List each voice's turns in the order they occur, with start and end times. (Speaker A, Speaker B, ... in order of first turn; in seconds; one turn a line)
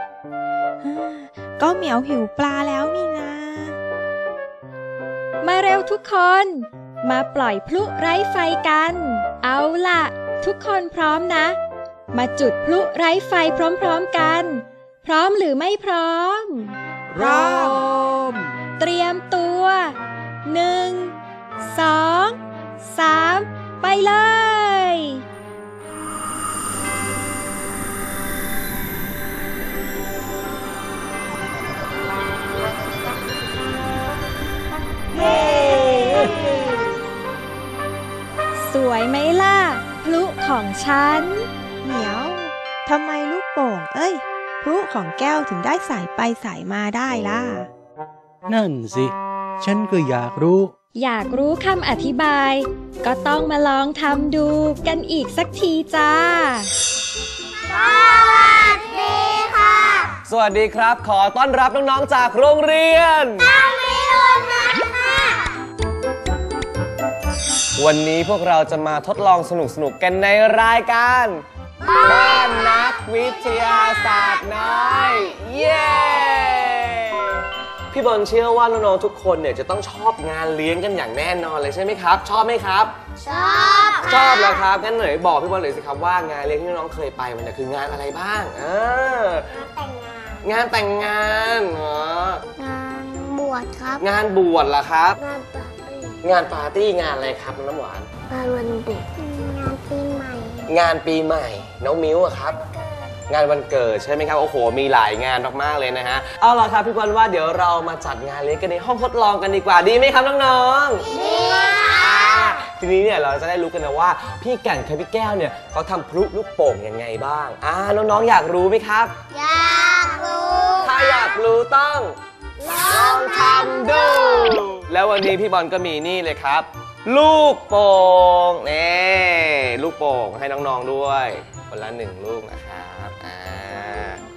Speaker A: 0.8-3.8
Speaker B: 5.4-11.5
Speaker B: 12.1-17.9
Speaker C: 17.2-18.1
Speaker B: 18.8-19.9
Speaker B: 20.5-25.2
Speaker A: 35.1-36.8
Speaker B: 35.2-36.0
Speaker B: 38.6-41.4
Speaker A: 41.8-47.7
Speaker C: 48.5-50.7
Speaker B: 51.0-56.7
Speaker D: 57.7-60.1
Speaker E: 60.3-63.5
Speaker D: 63.4-65.5
Speaker E: 67.8-71.4
Speaker D: 71.8-72.8
Speaker E: 72.0-77.3
Speaker D: 73.5-76.4
Speaker E: 77.9-83.0
Speaker D: 83.2-84.6
Speaker E: 84.0-89.5
Speaker D: 89.5-90.4
Speaker E: 90.4-92.4
Speaker D: 92.5-94.0
Speaker E: 94.0-95.2
Speaker D: 95.2-96.2
Speaker E: 96.2-98.1
Speaker D: 98.3-100.7
Speaker E: 100.7-102.6
Speaker D: 102.6-103.1
Speaker E: 103.3-111.1
Speaker D: 111.0-112.6
Speaker E: 111.7-119.1
Speaker D: 119.3-121.4
Speaker E: 120.8-122.2
Speaker D: 122.6-124.7
Speaker E: 122.7-134.2